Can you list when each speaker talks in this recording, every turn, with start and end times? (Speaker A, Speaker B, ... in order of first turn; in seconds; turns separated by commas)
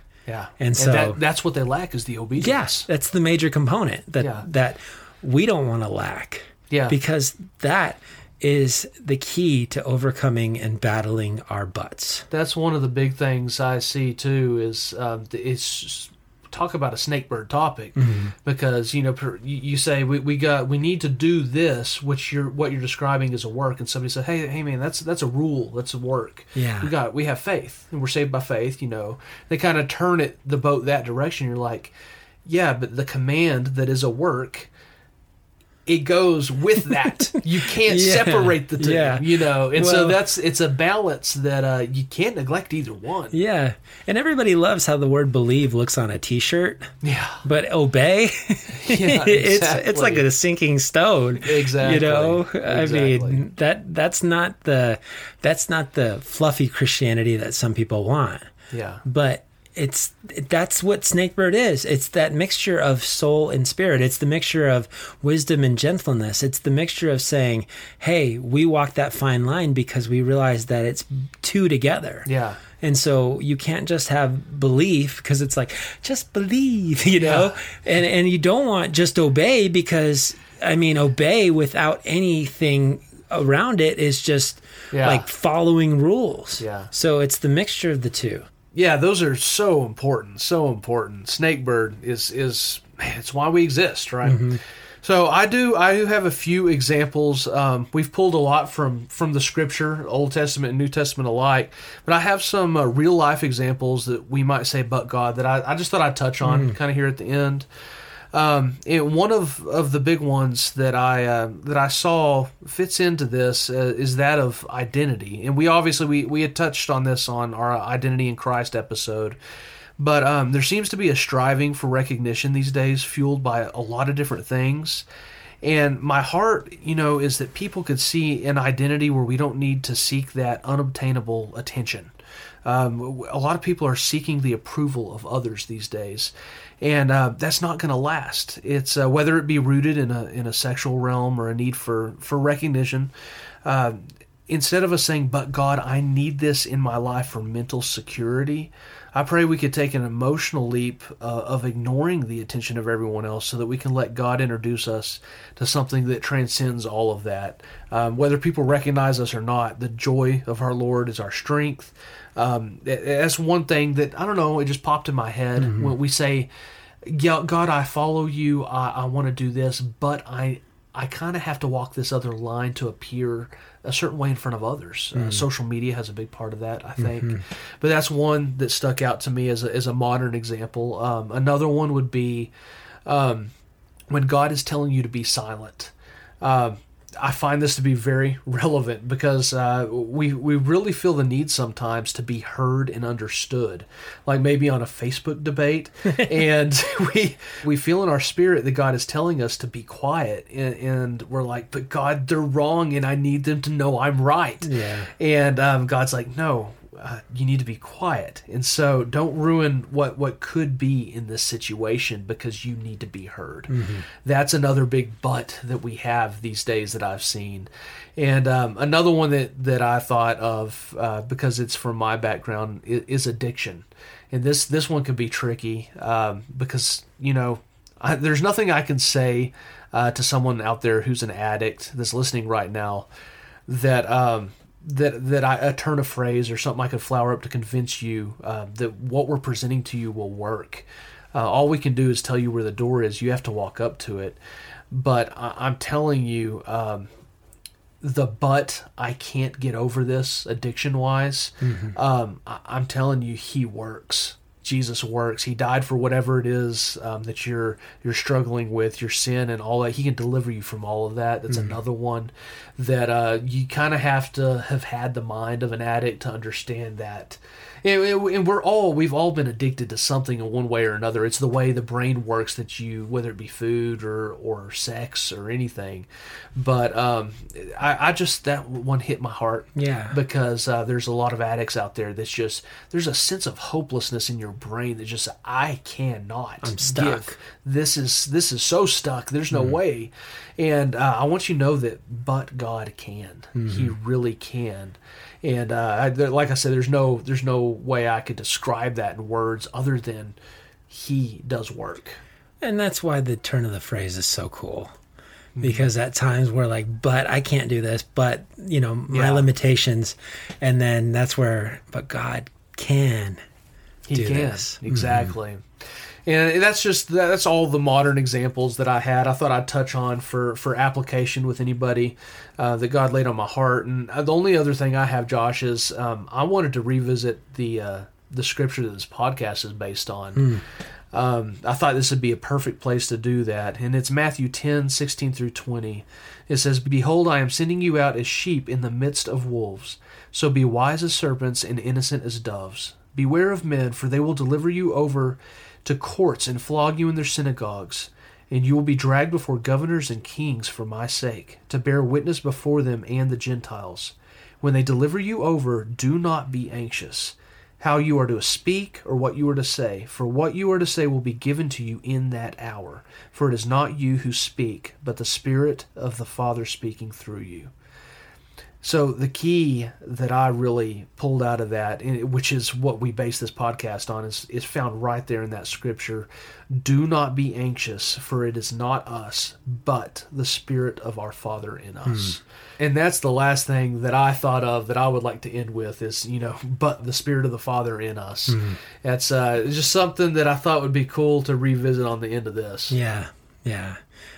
Speaker A: 0.3-2.9, Speaker B: 0.6-1.2, Speaker B: 2.4-12.3, Speaker A: 4.2-4.5, Speaker A: 6.7-7.0, Speaker A: 12.3-31.9, Speaker B: 17.9-18.3, Speaker B: 26.5-26.9, Speaker A: 32.4-34.7, Speaker A: 35.9-43.4, Speaker B: 36.9-40.2, Speaker B: 43.3-58.5, Speaker A: 47.0-47.4, Speaker A: 48.7-50.2, Speaker A: 51.4-53.4, Speaker A: 58.7-59.0, Speaker B: 59.0-72.3, Speaker A: 72.2-72.6, Speaker B: 72.8-88.5, Speaker A: 77.2-77.5, Speaker A: 84.9-85.3, Speaker A: 86.6-86.9, Speaker A: 88.7-107.7, Speaker B: 94.2-94.6, Speaker B: 106.4-106.8, Speaker A: 108.3-119.4, Speaker A: 120.0-125.0, Speaker A: 125.6-132.1, Speaker A: 132.6-143.1, Speaker A: 143.6-166.5, Speaker B: 165.6-165.9, Speaker A: 167.0-182.5, Speaker B: 175.1-175.4, Speaker B: 177.0-177.4, Speaker A: 183.1-183.5, Speaker A: 184.1-233.1, Speaker B: 196.1-196.3, Speaker B: 204.6-205.1, Speaker B: 213.7-214.0, Speaker A: 233.7-244.4, Speaker A: 244.9-247.1, Speaker A: 248.0-300.4, Speaker B: 251.6-251.9, Speaker B: 261.5-261.8, Speaker B: 279.8-280.2, Speaker B: 286.6-287.4, Speaker B: 289.5-289.8, Speaker B: 293.6-293.9, Speaker A: 300.9-302.2, Speaker B: 302.6-304.9, Speaker A: 305.6-305.9, Speaker B: 305.6-313.4, Speaker A: 309.1-309.5, Speaker A: 314.1-315.6, Speaker B: 314.1-315.3, Speaker A: 316.2-330.6, Speaker B: 330.4-330.6, Speaker A: 331.1-367.7, Speaker A: 368.8-393.0, Speaker B: 382.1-382.4, Speaker B: 388.5-388.8, Speaker B: 392.9-394.0